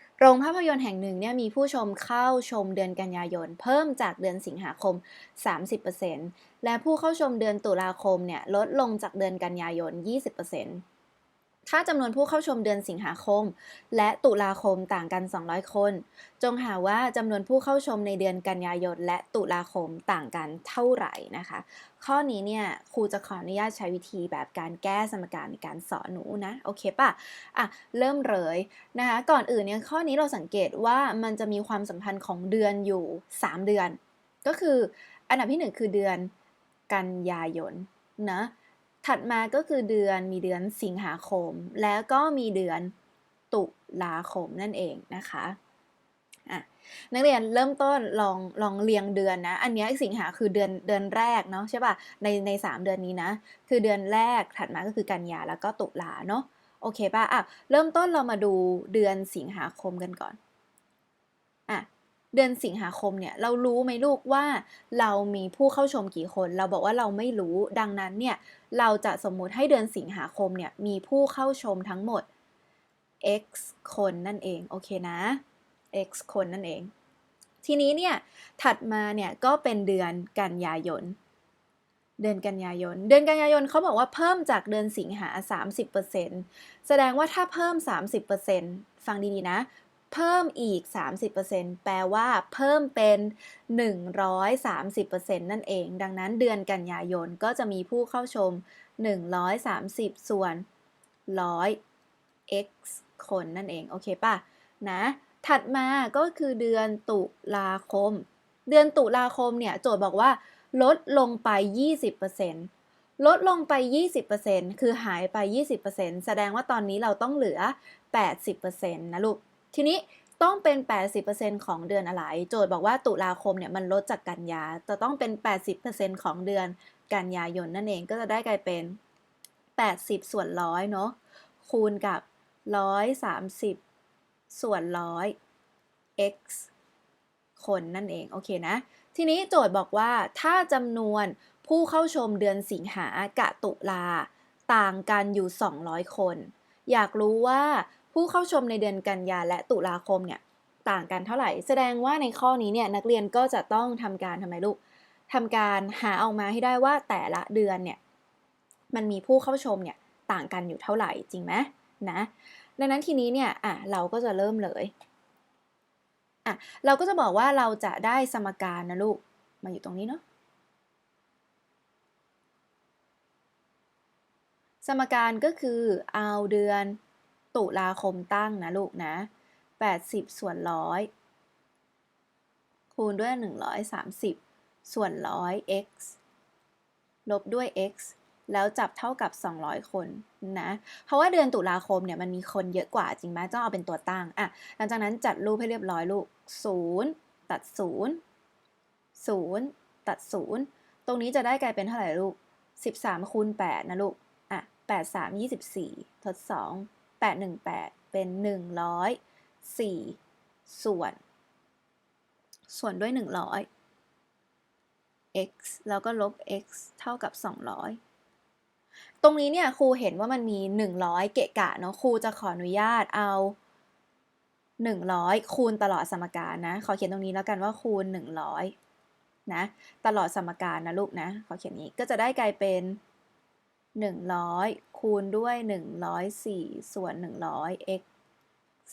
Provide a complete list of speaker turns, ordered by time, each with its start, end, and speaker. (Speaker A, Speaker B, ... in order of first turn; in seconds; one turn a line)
Speaker A: 0.2-10.8
Speaker A: 11.7-36.3
Speaker A: 36.9-38.5
Speaker A: 39.0-42.9
Speaker A: 43.5-45.6
Speaker A: 46.5-60.4
Speaker A: 61.7-72.2
Speaker A: 73.2-75.4
Speaker A: 75.9-76.9
Speaker A: 77.6-81.2
Speaker A: 82.2-100.6
Speaker A: 101.3-101.8
Speaker A: 102.5-112.7
Speaker A: 113.2-129.0
Speaker A: 129.8-133.8
Speaker A: 134.5-135.3
Speaker A: 136.2-136.7
Speaker A: 137.6-154.8
Speaker A: 155.3-158.0
Speaker A: 158.9-164.9
Speaker A: 166.4-170.2
Speaker A: 174.8-177.0
Speaker A: 177.5-179.3
Speaker A: 179.8-181.1
Speaker A: 182.9-186.2
Speaker A: 187.2-198.2
Speaker A: 199.2-211.2
Speaker A: 212.7-213.7
Speaker A: 215.3-218.0
Speaker A: 219.2-223.6
Speaker A: 224.8-228.7
Speaker A: 229.5-233.0
Speaker A: 233.9-238.0